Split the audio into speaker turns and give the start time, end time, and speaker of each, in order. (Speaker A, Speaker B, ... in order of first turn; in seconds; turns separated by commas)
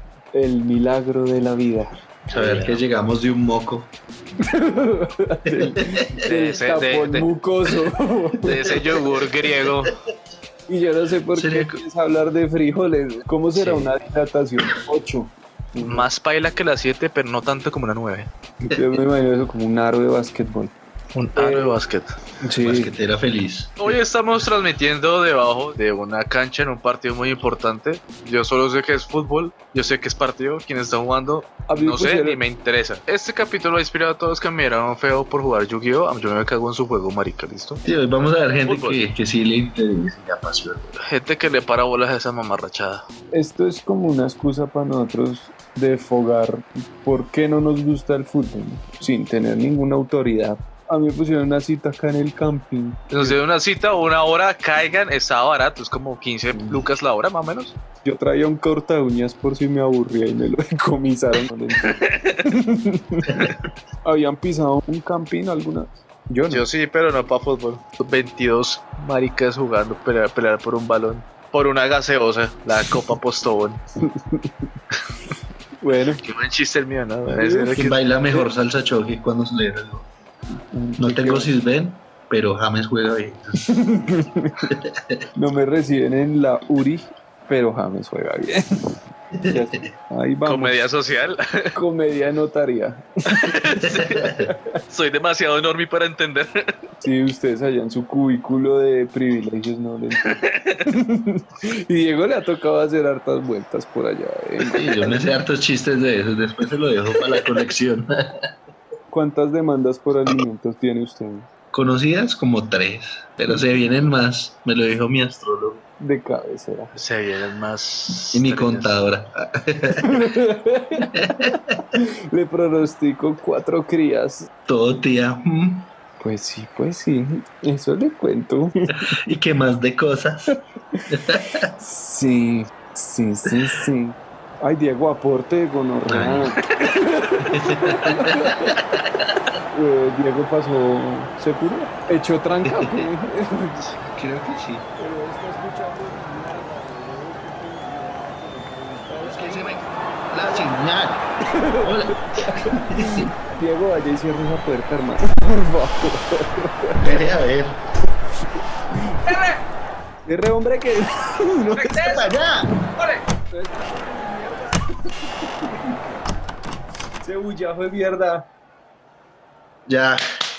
Speaker A: 0.3-1.9, Speaker B: 2.3-3.9, Speaker C: 2.3-2.8, Speaker A: 4.4-8.7, Speaker B: 5.5-6.1, Speaker C: 6.3-7.3, Speaker C: 8.4-10.0, Speaker A: 10.7-16.1, Speaker B: 11.4-11.8, Speaker C: 13.6-13.9, Speaker C: 15.8-18.3, Speaker A: 18.6-20.7, Speaker C: 21.1-22.2, Speaker A: 21.4-21.8, Speaker A: 22.4-22.9, Speaker B: 22.6-23.8, Speaker C: 23.8-37.8, Speaker A: 31.7-32.4, Speaker B: 37.8-41.0, Speaker C: 38.6-39.0, Speaker C: 41.0-43.0, Speaker A: 43.3-53.4, Speaker C: 53.1-57.8, Speaker A: 58.0-61.9, Speaker C: 61.8-62.4, Speaker A: 62.4-63.5, Speaker A: 64.0-66.6, Speaker C: 66.5-73.8, Speaker A: 74.0-74.7, Speaker A: 75.8-76.2, Speaker C: 76.2-78.0, Speaker A: 77.3-77.8, Speaker B: 77.7-80.1, Speaker A: 80.7-81.5, Speaker B: 81.0-83.6, Speaker A: 83.7-84.7, Speaker A: 85.3-88.6, Speaker B: 89.3-89.9, Speaker A: 89.5-90.9, Speaker C: 90.5-91.7, Speaker A: 91.7-94.8, Speaker C: 93.3-94.2, Speaker C: 94.9-96.7, Speaker A: 97.0-105.2, Speaker C: 100.2-100.8, Speaker B: 104.7-108.1, Speaker A: 109.1-111.5, Speaker B: 111.7-115.8, Speaker A: 116.0-116.9, Speaker C: 116.9-119.0, Speaker B: 118.3-120.0, Speaker A: 120.0-121.1, Speaker B: 121.2-121.8, Speaker A: 122.0-124.5, Speaker B: 124.7-125.9, Speaker A: 126.2-129.1, Speaker B: 129.0-130.6, Speaker B: 131.1-131.7, Speaker A: 131.8-138.8, Speaker B: 136.1-136.5, Speaker B: 137.5-139.3, Speaker A: 139.7-143.9, Speaker B: 142.7-143.1, Speaker B: 144.0-144.9, Speaker A: 145.0-149.8, Speaker B: 149.2-151.3, Speaker A: 150.4-150.7, Speaker A: 151.6-157.2, Speaker B: 151.8-153.3, Speaker B: 157.0-157.8, Speaker C: 159.3-159.6, Speaker A: 160.3-162.2, Speaker C: 161.7-162.3, Speaker B: 162.0-162.7, Speaker C: 163.0-163.2, Speaker A: 163.5-164.8, Speaker A: 167.2-168.5, Speaker B: 169.9-170.2